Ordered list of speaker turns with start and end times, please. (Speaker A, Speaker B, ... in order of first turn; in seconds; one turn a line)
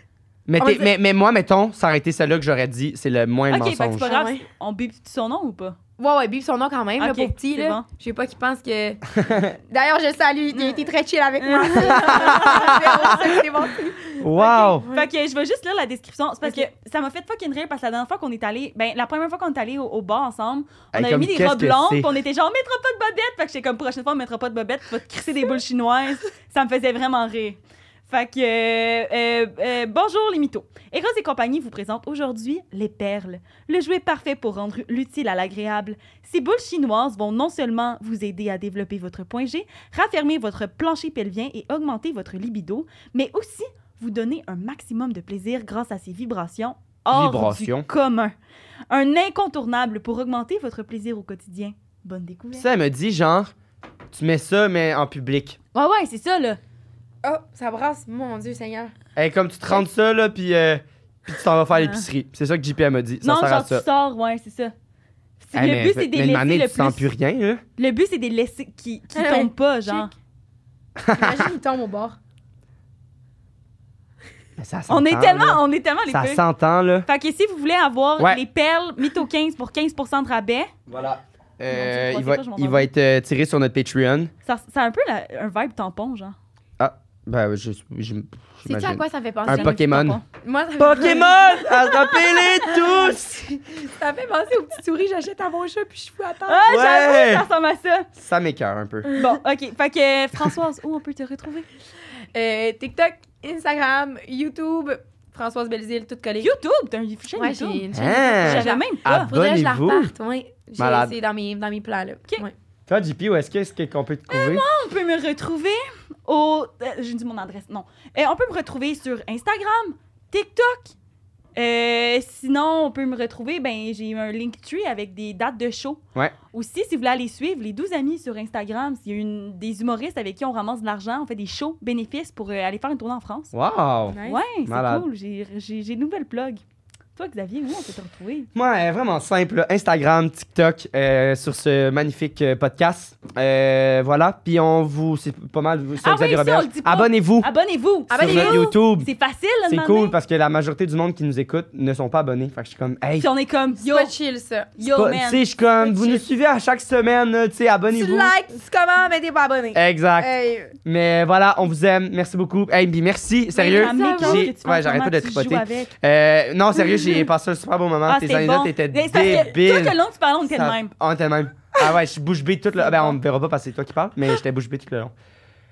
Speaker A: 0.5-4.1
Speaker B: 0.6-0.9
Speaker C: 3.5-5.8
Speaker B: 4.0-4.4
Speaker B: 6.0-15.1
Speaker C: 7.0-7.8
Speaker A: 9.2-9.5
Speaker C: 10.5-10.9
Speaker C: 11.4-13.4
Speaker A: 11.9-13.3
Speaker A: 14.2-14.8
Speaker C: 14.4-48.3
Speaker A: 20.9-22.1
Speaker A: 47.1-47.9
Speaker C: 48.9-52.6
Speaker A: 52.5-53.5
Speaker A: 54.1-55.6
Speaker C: 55.7-56.6
Speaker B: 57.2-58.9
Speaker A: 59.1-63.8
Speaker C: 61.7-62.1
Speaker C: 63.2-64.7
Speaker C: 65.4-67.0
Speaker A: 65.5-67.6
Speaker C: 67.8-70.1
Speaker B: 69.1-70.1
Speaker A: 71.0-71.5
Speaker B: 71.1-72.2
Speaker A: 74.6-77.1
Speaker C: 74.9-76.4
Speaker C: 77.1-80.7
Speaker A: 80.9-84.3
Speaker C: 81.7-82.9
Speaker C: 84.5-86.3
Speaker A: 86.8-90.2
Speaker B: 88.7-96.7
Speaker C: 89.5-90.2
Speaker A: 90.8-93.4
Speaker C: 96.5-98.1
Speaker A: 96.7-97.5
Speaker A: 98.1-99.1
Speaker C: 99.2-101.7
Speaker B: 102.3-106.5
Speaker C: 106.4-107.8
Speaker B: 107.4-112.5
Speaker A: 107.9-110.1
Speaker C: 108.4-109.3
Speaker A: 110.8-111.1
Speaker A: 112.9-114.6
Speaker C: 114.3-120.9
Speaker C: 121.5-126.0
Speaker C: 126.5-133.5
Speaker A: 133.5-135.0
Speaker B: 134.1-134.4
Speaker C: 134.2-136.6
Speaker C: 137.2-138.5
Speaker A: 138.5-147.5
Speaker C: 146.0-150.2
Speaker B: 148.1-148.7
Speaker A: 148.1-149.1
Speaker A: 149.7-153.3
Speaker C: 153.2-154.1
Speaker B: 153.8-154.7
Speaker C: 154.8-156.2
Speaker A: 154.8-158.3
Speaker B: 157.9-160.7
Speaker A: 159.7-160.3
Speaker A: 160.8-175.1
Speaker C: 163.6-165.9
Speaker B: 163.6-164.5
Speaker C: 166.9-167.2
Speaker C: 168.1-170.9
Speaker C: 172.8-173.2